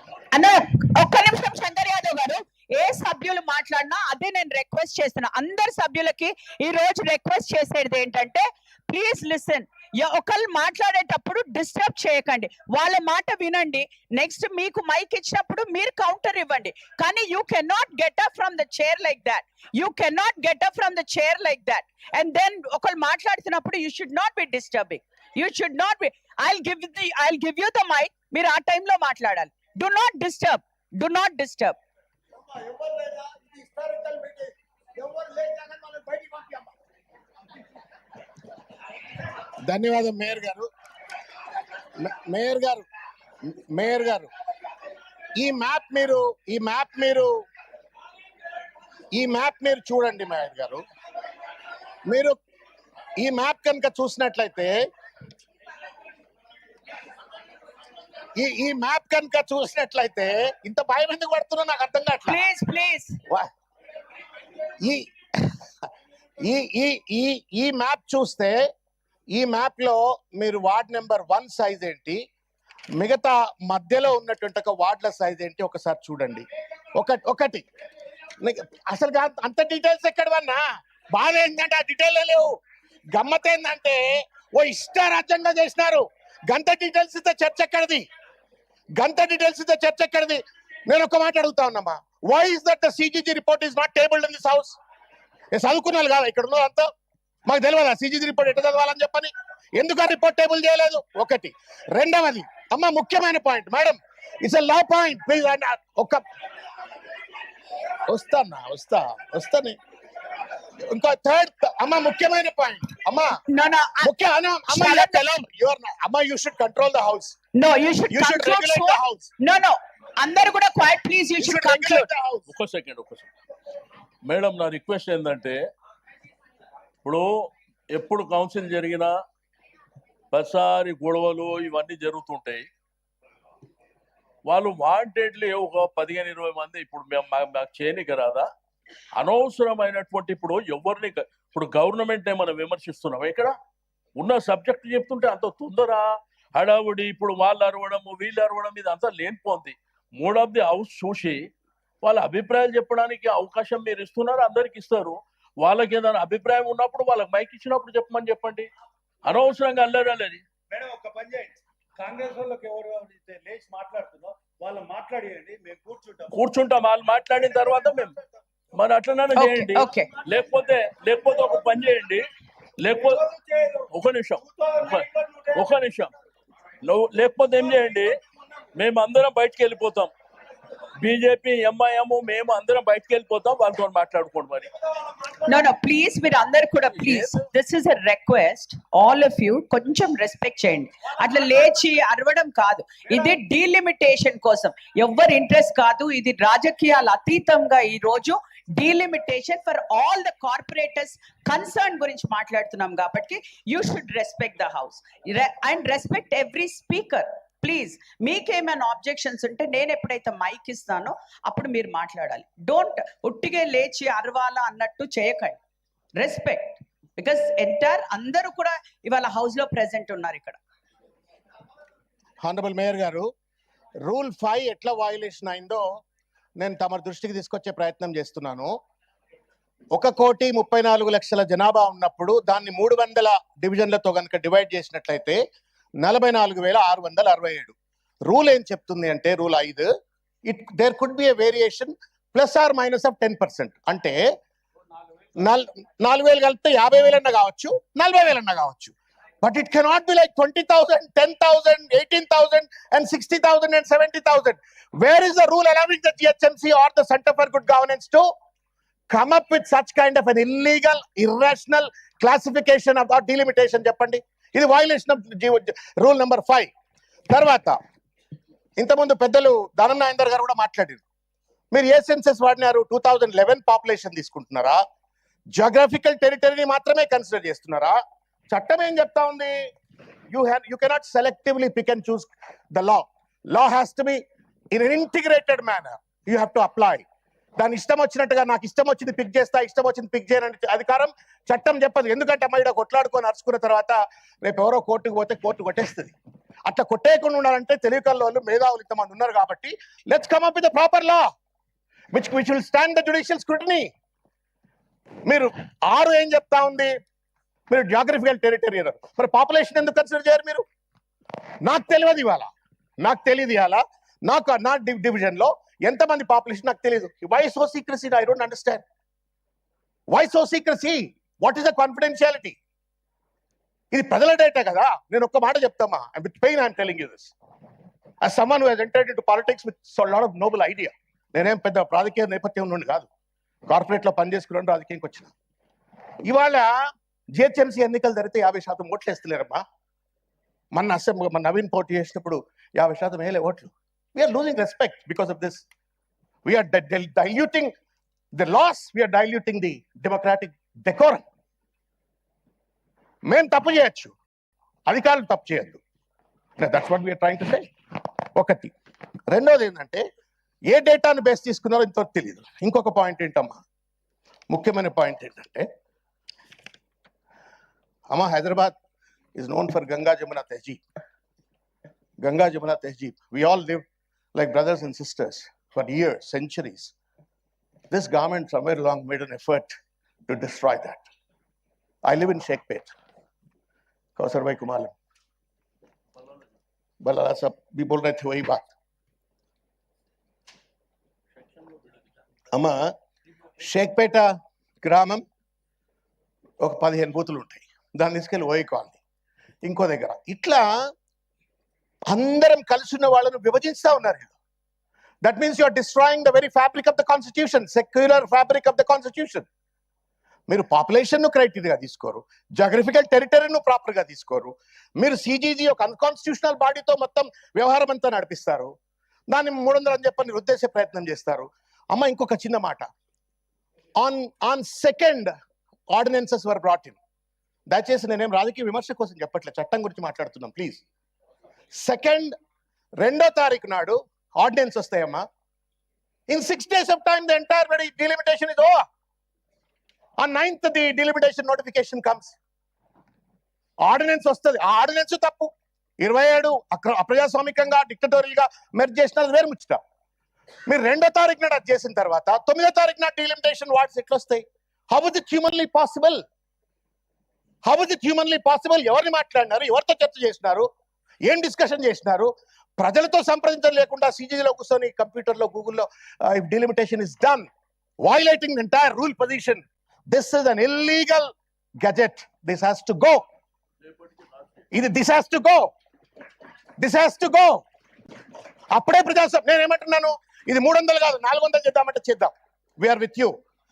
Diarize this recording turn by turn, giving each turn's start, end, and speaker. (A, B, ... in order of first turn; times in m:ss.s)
0:00.3-0:31.8 A
0:32.5-0:36.7 B
0:39.6-0:40.7 C
0:42.0-0:42.8 C
0:43.5-0:44.3 C
0:45.4-0:47.4 C
0:49.1-0:50.8 C
0:52.1-0:52.4 C
0:53.2-0:54.8 C
0:58.4-1:02.4 C
1:02.3-1:03.2 A
1:04.8-1:05.5 C
1:06.4-1:08.6 C
1:09.3-1:12.2 C
1:13.0-1:16.4 C
1:17.0-1:17.6 C
1:18.4-1:22.5 C
1:23.1-1:28.0 C
1:29.0-1:34.8 C
1:35.5-1:36.9 C
1:37.5-1:46.2 C
1:48.1-1:49.8 C
1:50.9-1:53.4 C
1:53.5-1:54.1 A
1:54.0-1:57.4 C
1:54.7-1:55.2 A
1:57.5-2:02.1 A
1:58.1-1:59.3 C
2:01.4-2:02.5 C
2:02.5-2:03.3 D
2:04.2-2:05.6 D
2:07.0-2:09.1 D
2:10.3-2:12.6 D
2:14.5-2:18.5 D
2:19.2-2:23.5 D
2:24.2-2:31.4 D
2:32.0-2:38.7 D
2:39.2-2:40.4 D
2:40.7-2:46.3 B
2:46.3-2:48.2 D
2:48.8-2:52.2 D
2:49.4-2:50.1 A
2:52.8-2:53.2 D
2:53.3-2:53.8 B
2:53.9-2:56.1 D
2:54.7-2:55.5 B
2:56.8-2:58.1 D
2:58.8-3:00.1 D
3:01.0-3:04.7 D
3:05.4-3:35.6 A
3:07.0-3:07.4 D
3:36.2-3:40.6 A
3:42.4-3:43.3 C
3:44.0-3:45.8 C
3:46.6-3:48.7 C
3:49.9-3:55.4 C
3:56.0-3:57.8 C
3:58.2-3:59.9 C
4:00.5-4:04.2 C
4:05.4-4:18.2 C
4:19.1-4:26.7 C
4:27.3-4:27.8 C
4:28.8-4:31.0 C
4:31.7-4:34.8 C
4:35.5-4:38.0 C
4:38.5-4:39.6 C
4:40.3-4:47.0 C
4:47.6-4:56.1 C
4:56.6-5:01.3 C
5:02.1-5:03.9 C
5:05.2-5:06.9 C
5:07.7-5:10.6 C
5:11.6-5:12.5 C
5:13.0-5:18.8 C
5:20.1-5:22.6 C
5:23.9-5:27.3 C
5:28.2-5:33.1 C
5:33.7-5:35.3 C
5:36.2-5:36.7 C
5:37.3-5:39.6 C
5:40.7-5:45.6 C
5:46.4-5:47.7 C
5:48.3-5:51.2 C
5:53.3-5:54.1 C
5:54.9-5:55.8 C
5:56.6-5:57.7 C
5:58.4-5:58.7 C
5:59.3-6:00.0 C
6:00.7-6:03.6 C
6:04.5-6:05.7 C
6:08.1-6:08.8 C
6:09.4-6:10.8 C
6:12.2-6:16.9 C
6:17.9-6:19.7 C
6:20.3-6:21.0 C
6:22.0-6:22.9 C
6:24.2-6:24.9 C
6:27.0-6:28.7 C
6:32.5-6:32.9 C
6:33.6-6:34.3 C
6:34.8-6:35.2 C
6:36.6-6:39.0 C
6:39.6-6:40.7 C
6:42.1-6:44.3 C
6:45.2-6:49.4 C
6:50.5-6:58.7 C
6:59.3-7:02.9 C
7:04.0-7:05.3 C
7:05.9-7:07.0 C
7:07.7-7:10.8 C
7:11.8-7:12.3 C
7:13.0-7:15.2 C
7:16.3-7:18.8 C
7:20.2-7:22.4 C
7:23.8-7:29.8 C
7:30.7-7:36.2 C
7:37.6-7:40.7 C
7:41.3-7:47.5 C
7:48.0-7:53.2 C
7:54.7-7:55.7 C
7:56.8-7:57.6 C
7:58.7-8:03.3 C